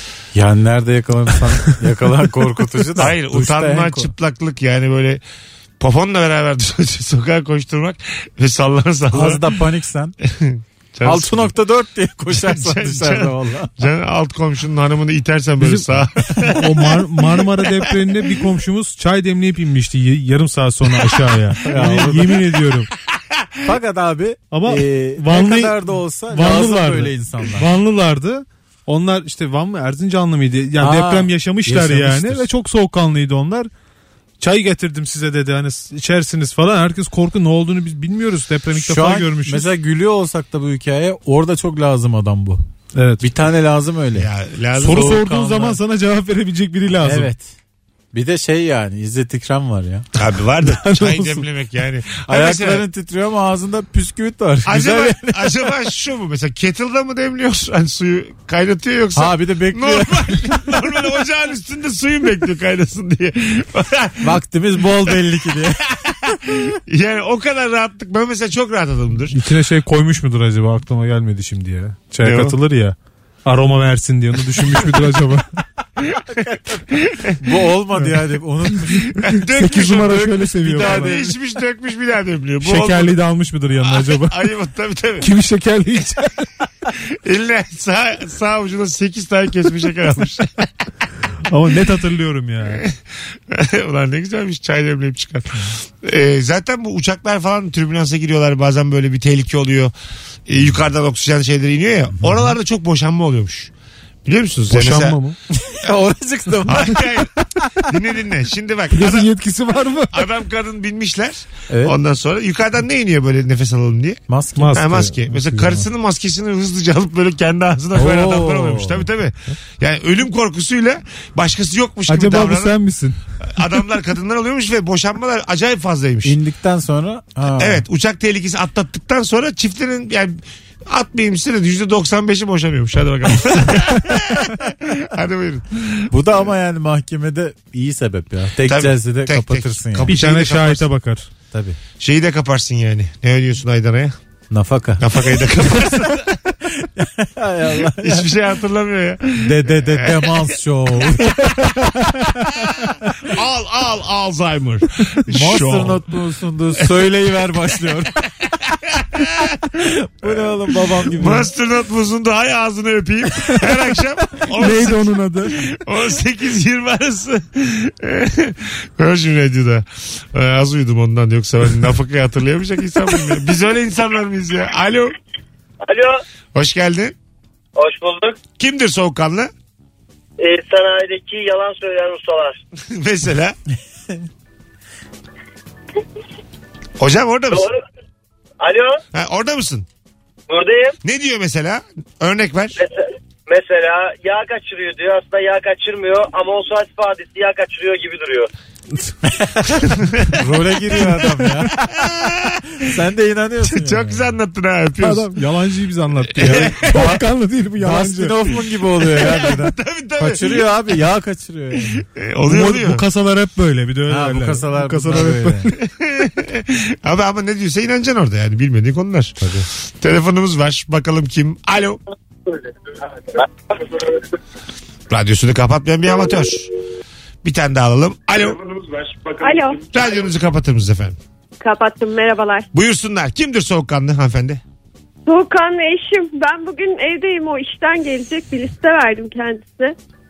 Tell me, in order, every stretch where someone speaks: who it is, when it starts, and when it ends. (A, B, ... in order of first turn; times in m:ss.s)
0:00.3-0:04.1 A
0:03.0-0:05.2 B
0:05.8-0:09.5 B
0:09.1-0:10.1 A
0:10.2-0:11.5 B
0:11.0-0:13.7 A
0:12.3-0:17.6 B
0:15.6-0:22.9 C
0:21.6-0:22.4 A
0:23.1-0:23.4 B
0:23.6-0:27.7 A
0:24.5-0:33.7 C
0:30.8-0:32.5 A
0:34.4-0:39.7 C
0:38.8-0:42.6 A
0:42.9-0:43.2 C
0:43.2-0:44.3 A
0:44.1-0:45.2 B
0:44.8-0:47.3 C
0:44.8-0:45.8 A
0:47.0-0:47.5 A
0:48.1-0:50.1 A
0:50.2-0:52.8 B
0:50.7-0:51.4 C
0:52.2-0:55.7 A
0:54.6-1:04.3 B
0:59.2-1:00.4 A
1:04.2-1:05.8 A
1:05.9-1:09.4 B
1:09.3-1:15.4 C
1:12.2-1:12.6 B
1:16.0-1:17.4 B
1:17.4-1:19.1 A
1:19.1-1:23.2 B
1:19.2-1:21.2 C
1:19.9-1:21.3 A
1:22.6-1:24.4 C
1:23.8-1:25.3 B
1:25.2-1:26.5 C
1:27.0-1:30.7 B
1:31.5-1:32.8 C
1:32.6-1:32.9 B
1:33.5-1:39.9 B
1:40.5-1:43.7 B
1:44.2-1:45.2 B
1:44.7-1:45.4 C
1:45.6-1:47.0 A
1:46.6-1:47.3 B
1:47.8-1:49.3 B
1:48.9-1:50.2 C
1:50.1-1:54.2 B
1:51.7-1:52.0 A
1:54.3-1:55.0 A
1:54.6-1:55.8 C
1:54.7-2:02.8 B
1:57.9-1:59.0 A
2:02.1-2:03.2 C
2:03.4-2:06.4 B
2:06.2-2:07.8 A
2:07.6-2:16.1 B
2:16.1-2:20.2 A
2:18.6-2:20.9 B
2:20.1-2:21.3 C
2:21.5-2:21.8 A
2:22.0-2:24.1 B
2:24.5-2:25.1 A
2:25.0-2:26.4 B
2:26.7-2:28.3 A
2:28.0-2:30.4 B
2:29.4-2:32.5 A
2:32.6-2:36.0 B
2:35.3-2:38.2 A
2:38.6-2:39.6 B
2:39.8-2:41.5 A
2:41.1-2:55.1 B
2:44.6-2:45.6 C
2:55.8-2:56.2 D
2:56.5-2:57.1 B
2:57.8-2:58.4 D
2:58.6-2:59.5 B
3:00.4-3:02.6 D
3:02.9-3:03.6 B
3:07.0-3:07.7 B
3:07.5-3:07.8 D
3:08.6-3:09.0 D
3:09.1-3:09.8 B
3:10.5-3:11.0 D
3:11.0-3:12.8 B
3:12.8-3:18.5 D
3:19.6-3:20.4 B
3:20.3-3:21.8 A
3:21.8-3:22.7 B
3:22.8-3:24.3 A
3:23.6-3:25.4 B
3:25.0-3:28.4 C
3:26.3-3:27.2 B
3:26.4-3:27.2 A
3:27.8-3:32.0 A
3:29.1-3:30.7 B
3:32.0-3:33.0 B
3:32.4-3:35.8 C
3:34.1-3:35.7 A
3:35.8-3:42.0 B
3:45.1-3:46.7 B
3:47.4-3:48.6 B
3:49.4-3:49.8 E
3:49.8-3:51.2 B
3:51.6-3:52.7 E
3:52.7-3:54.6 B
3:55.2-4:00.0 E